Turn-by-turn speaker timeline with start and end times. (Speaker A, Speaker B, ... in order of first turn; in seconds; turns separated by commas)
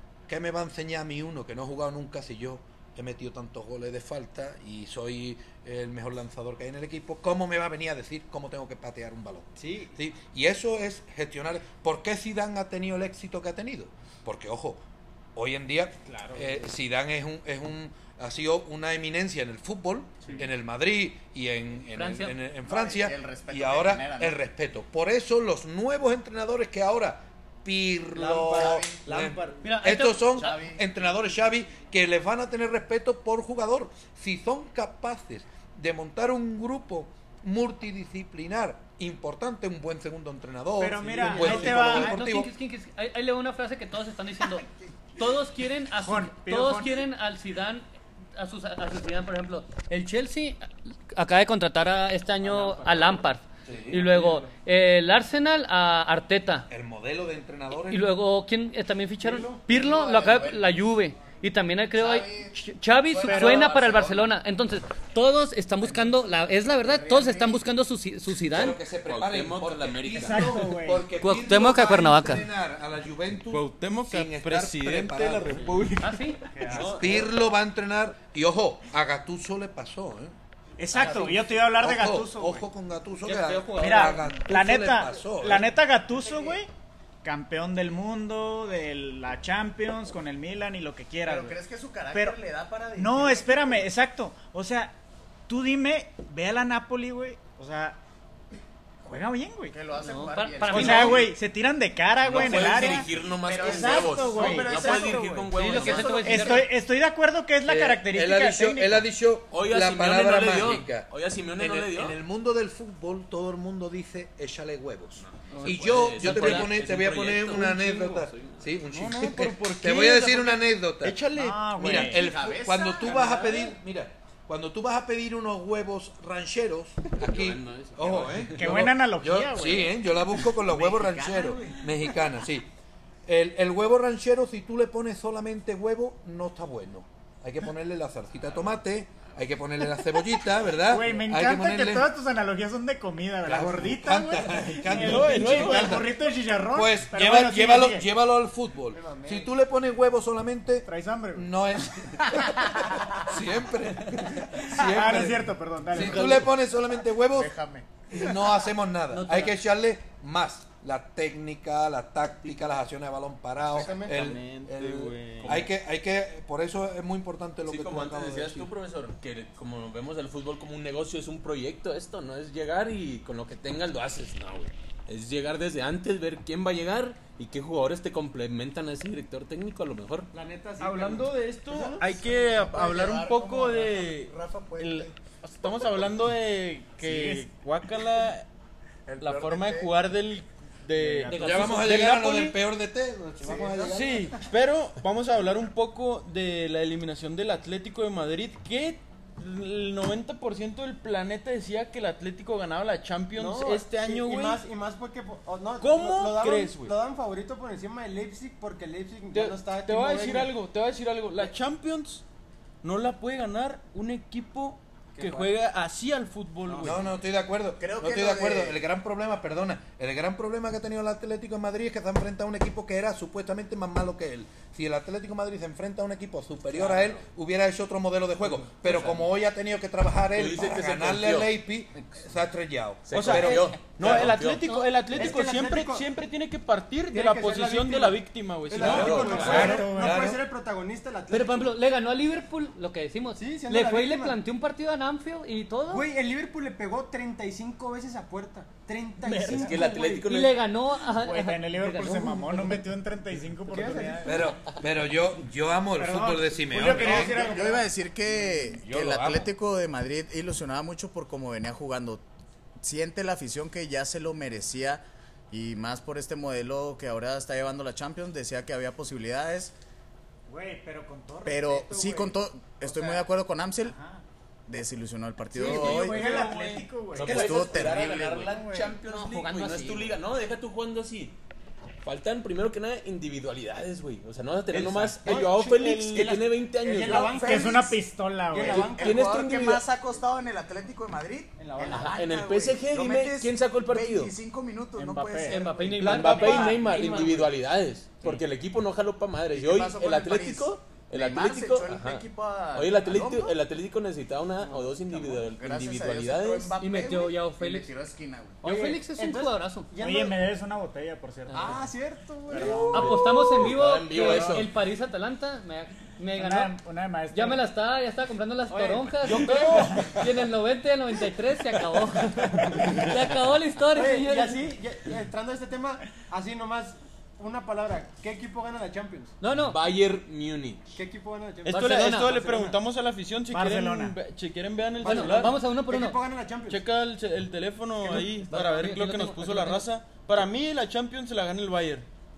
Speaker A: 0.3-14.8, Speaker B: 9.6-10.0, Speaker A: 15.3-42.5, Speaker B: 16.1-16.4, Speaker C: 21.9-22.4, Speaker D: 22.6-24.4, Speaker B: 28.1-29.6, Speaker D: 28.4-29.1, Speaker C: 29.6-30.5, Speaker D: 30.3-30.8, Speaker E: 40.8-42.2, Speaker C: 41.1-56.7, Speaker E: 46.0-47.0, Speaker B: 52.5-52.9, Speaker A: 53.6-54.1, Speaker A: 56.7-58.1, Speaker C: 57.8-68.8, Speaker B: 59.2-59.7, Speaker D: 59.6-60.8, Speaker D: 61.9-64.3, Speaker E: 63.2-63.7, Speaker D: 65.8-66.2, Speaker D: 66.8-67.6, Speaker A: 68.5-75.8, Speaker F: 68.9-70.6, Speaker E: 70.1-71.1, Speaker C: 71.2-72.5, Speaker G: 73.5-76.3, Speaker C: 76.0-77.1, Speaker E: 76.5-77.0, Speaker A: 76.7-80.3, Speaker E: 80.8-82.6, Speaker C: 80.9-81.4, Speaker A: 81.7-85.7, Speaker C: 83.2-84.3, Speaker E: 83.7-86.7, Speaker D: 86.1-86.6, Speaker E: 87.2-91.6, Speaker D: 91.2-93.9, Speaker E: 92.1-92.4, Speaker E: 93.0-95.0, Speaker E: 95.5-98.0, Speaker E: 99.0-99.7, Speaker D: 99.7-101.3, Speaker C: 99.9-101.3, Speaker E: 100.7-105.1, Speaker F: 102.2-106.5, Speaker D: 102.4-106.4, Speaker C: 105.5-106.7, Speaker E: 106.1-109.0, Speaker A: 107.7-121.2, Speaker F: 109.5-112.2, Speaker F: 115.2-118.8, Speaker C: 115.5-116.7, Speaker G: 118.9-121.9, Speaker E: 121.3-122.3, Speaker A: 121.8-132.7, Speaker D: 121.9-123.7, Speaker F: 127.2-128.6, Speaker E: 128.5-130.0, Speaker D: 130.5-132.1, Speaker A: 133.2-142.1, Speaker E: 140.7-148.1, Speaker A: 143.4-146.2, Speaker G: 144.9-146.0, Speaker A: 146.7-157.5, Speaker B: 149.0-149.4, Speaker E: 150.8-151.5, Speaker E: 154.6-156.5, Speaker D: 156.0-156.3, Speaker D: 157.3-157.9, Speaker A: 158.1-168.7, Speaker C: 159.1-159.6, Speaker B: 163.7-164.2, Speaker G: 164.1-165.6, Speaker F: 167.6-180.3, Speaker B: 180.3-182.1, Speaker G: 180.8-188.5, Speaker D: 182.2-185.2, Speaker E: 187.0-187.5, Speaker D: 189.1-189.9, Speaker G: 189.2-192.6, Speaker E: 190.9-191.5, Speaker C: 191.2-192.1, Speaker A: 191.3-194.3, Speaker D: 193.4-194.2, Speaker G: 193.8-204.6, Speaker B: 203.3-210.5, Speaker G: 205.8-207.0, Speaker G: 209.3-212.2, Speaker G: 212.8-217.1, Speaker B: 215.1-215.5, Speaker B: 216.7-217.0, Speaker A: 216.8-234.3, Speaker D: 217.8-218.8, Speaker F: 226.8-227.2, Speaker F: 228.8-229.2, Speaker F: 230.3-231.6, Speaker F: 233.1-234.6, Speaker G: 233.1-239.8, Speaker C: 234.6-235.0, Speaker B: 235.1-236.1, Speaker B: 237.1-241.7, Speaker F: 238.8-239.8, Speaker A: 238.8-240.4, Speaker E: 238.9-240.3, Speaker C: 241.3-246.1, Speaker B: 243.3-244.4, Speaker B: 245.9-250.2, Speaker E: 249.2-249.8, Speaker F: 249.5-250.6, Speaker C: 250.1-252.8, Speaker E: 251.1-254.4, Speaker B: 253.7-254.5, Speaker A: 254.2-257.5, Speaker E: 256.0-257.9, Speaker B: 257.0-257.6, Speaker D: 257.0-262.2, Speaker A: 258.8-259.5, Speaker D: 262.8-269.7, Speaker E: 270.5-273.2, Speaker D: 271.4-274.0, Speaker E: 273.8-274.2, Speaker D: 274.7-276.5, Speaker G: 275.6-276.9, Speaker E: 275.6-278.9, Speaker F: 277.1-281.4, Speaker D: 277.2-278.6, Speaker C: 279.0-280.1, Speaker F: 282.0-287.5, Speaker G: 284.7-286.4, Speaker B: 285.3-288.0, Speaker D: 286.9-288.0, Speaker E: 287.3-288.9, Speaker B: 288.5-289.3, Speaker D: 288.6-296.0, Speaker F: 288.6-289.8, Speaker B: 291.6-292.2, Speaker F: 291.8-294.3, Speaker E: 294.9-296.7, Speaker C: 295.3-297.5, Speaker F: 295.9-306.7, Speaker D: 299.5-303.6, Speaker D: 305.1-308.6, Speaker C: 306.8-307.9, Speaker C: 308.6-309.9, Speaker B: 308.6-310.5, Speaker E: 310.0-311.9, Speaker B: 311.5-313.1, Speaker E: 312.5-313.2, Speaker C: 312.8-316.8, Speaker F: 312.9-314.7, Speaker E: 316.3-317.6, Speaker C: 317.3-324.6, Speaker B: 318.7-319.6, Speaker G: 319.2-320.2, Speaker B: 323.9-329.3, Speaker C: 329.4-329.8, Speaker F: 329.6-330.9, Speaker B: 330.9-332.8, Speaker G: 331.6-335.6, Speaker C: 331.7-332.4, Speaker E: 333.5-334.1, Speaker C: 335.0-336.2, Speaker B: 335.0-336.8, Speaker G: 336.7-342.1, Speaker C: 338.1-339.9